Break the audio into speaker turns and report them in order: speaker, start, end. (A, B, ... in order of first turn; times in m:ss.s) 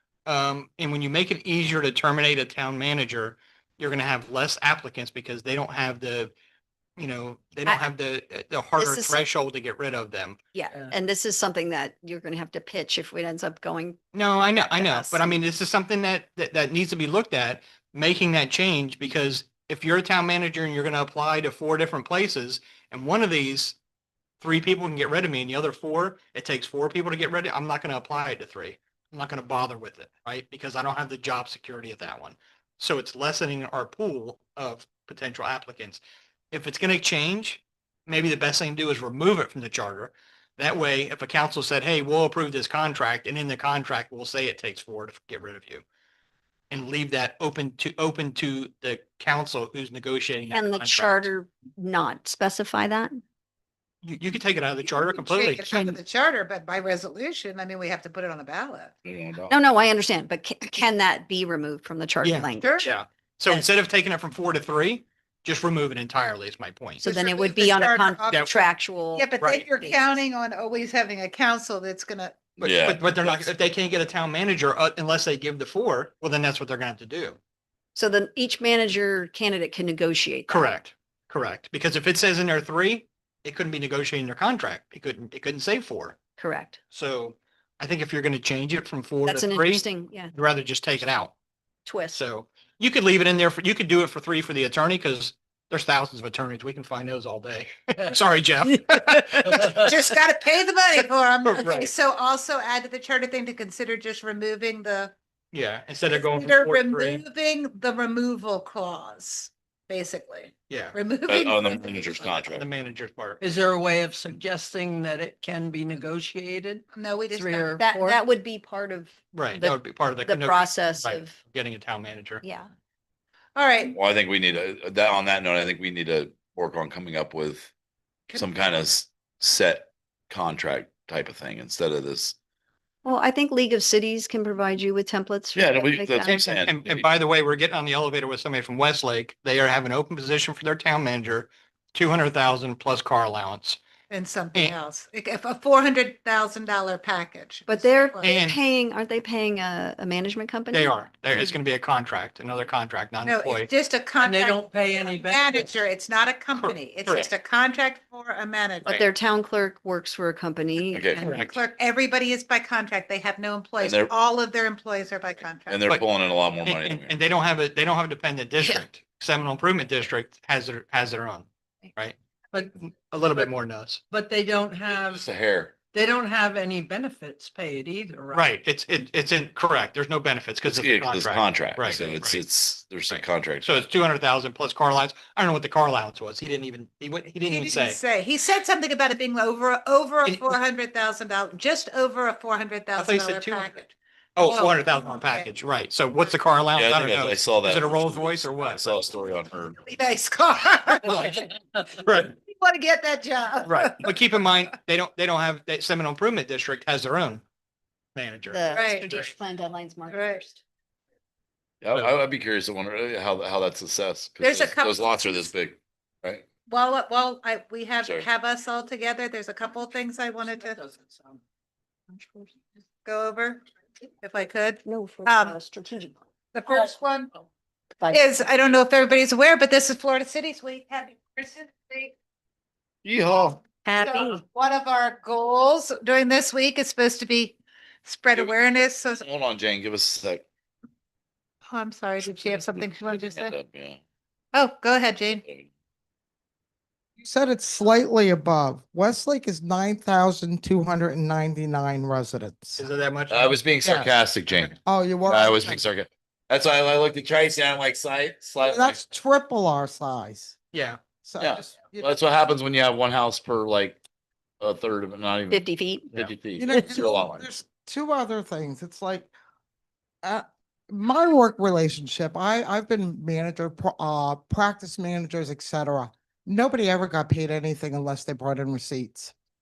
0:00.3-0:06.3 A
0:07.0-0:10.4 A
0:08.8-0:09.2 B
0:10.5-0:15.3 B
0:14.1-0:23.8 A
0:24.4-0:36.0 A
0:36.5-0:45.8 A
0:46.7-0:51.3 A
0:50.5-0:53.2 B
0:54.0-0:55.9 A
0:54.9-0:58.9 C
0:59.0-0:59.6 D
0:59.5-1:02.9 B
1:02.2-1:07.0 A
1:02.6-1:02.9 C
1:07.0-1:10.0 B
1:07.0-1:12.5 C
1:09.4-1:09.7 A
1:12.6-1:13.5 D
1:12.6-1:17.4 A
1:18.0-1:20.7 B
1:20.5-1:26.2 A
1:26.4-1:26.8 B
1:26.9-1:31.3 A
1:29.2-1:30.3 B
1:31.8-1:32.2 B
1:32.1-1:39.9 A
1:39.7-1:45.1 C
1:41.4-1:41.9 A
1:45.5-1:47.2 A
1:46.1-1:52.3 C
1:50.7-1:51.0 A
1:51.3-1:52.7 D
1:52.3-1:53.4 A
1:53.4-1:56.8 E
1:56.9-1:57.8 C
1:57.3-1:58.2 E
1:57.8-2:01.4 B
1:59.3-2:02.4 A
2:02.4-2:02.7 B
2:03.6-2:04.0 C
2:03.9-2:07.7 D
2:08.3-2:12.4 D
2:13.0-2:16.4 B
2:15.6-2:17.1 D
2:16.2-2:23.8 A
2:24.1-2:28.3 C
2:27.7-2:31.0 B
2:28.2-2:28.6 A
2:30.7-2:33.7 A
2:33.2-2:39.0 C
2:34.2-2:35.7 E
2:36.6-2:37.3 A
2:38.8-2:41.2 B
2:40.9-2:41.5 D
2:41.2-2:45.8 C
2:41.2-2:41.5 A
2:43.8-2:44.1 D
2:45.7-2:47.2 D
2:46.6-2:52.2 A
2:52.8-2:54.0 A
2:54.1-2:55.2 E
2:54.9-2:55.8 D
2:55.9-2:58.5 E
2:58.3-3:02.4 A
3:00.6-3:03.8 D
3:03.1-3:08.0 A
3:07.5-3:15.5 C
3:10.2-3:10.6 A
3:13.0-3:13.8 A
3:14.4-3:19.0 A
3:16.8-3:19.8 D
3:19.8-3:21.4 C
3:21.0-3:22.4 A
3:22.5-3:24.1 C
3:23.6-3:27.4 A
3:28.2-3:29.3 A
3:28.5-3:30.6 B
3:28.7-3:29.1 C
3:30.1-3:30.4 C
3:31.8-3:36.5 D
3:34.4-3:35.0 C
3:36.7-3:40.8 C
3:42.1-3:42.5 B
3:43.0-3:43.6 C
3:44.2-3:45.6 C
3:44.8-3:46.2 B
3:46.5-3:47.3 C
3:48.1-3:52.2 C
3:53.0-3:53.8 D
3:53.8-3:54.4 B
3:54.0-3:59.2 C
3:59.2-4:00.5 D
4:01.7-4:03.6 C
4:03.3-4:04.0 D
4:04.5-4:05.4 C
4:07.2-4:12.9 F
4:12.8-4:13.6 A
4:13.3-4:19.0 D
4:13.8-4:14.2 F
4:14.8-4:15.8 F
4:18.6-4:20.6 F
4:20.7-4:21.0 A
4:21.2-4:22.1 F
4:21.4-4:24.0 D
4:24.6-4:27.6 D
4:25.5-4:26.1 B
4:26.6-4:29.3 F
4:30.2-4:39.3 F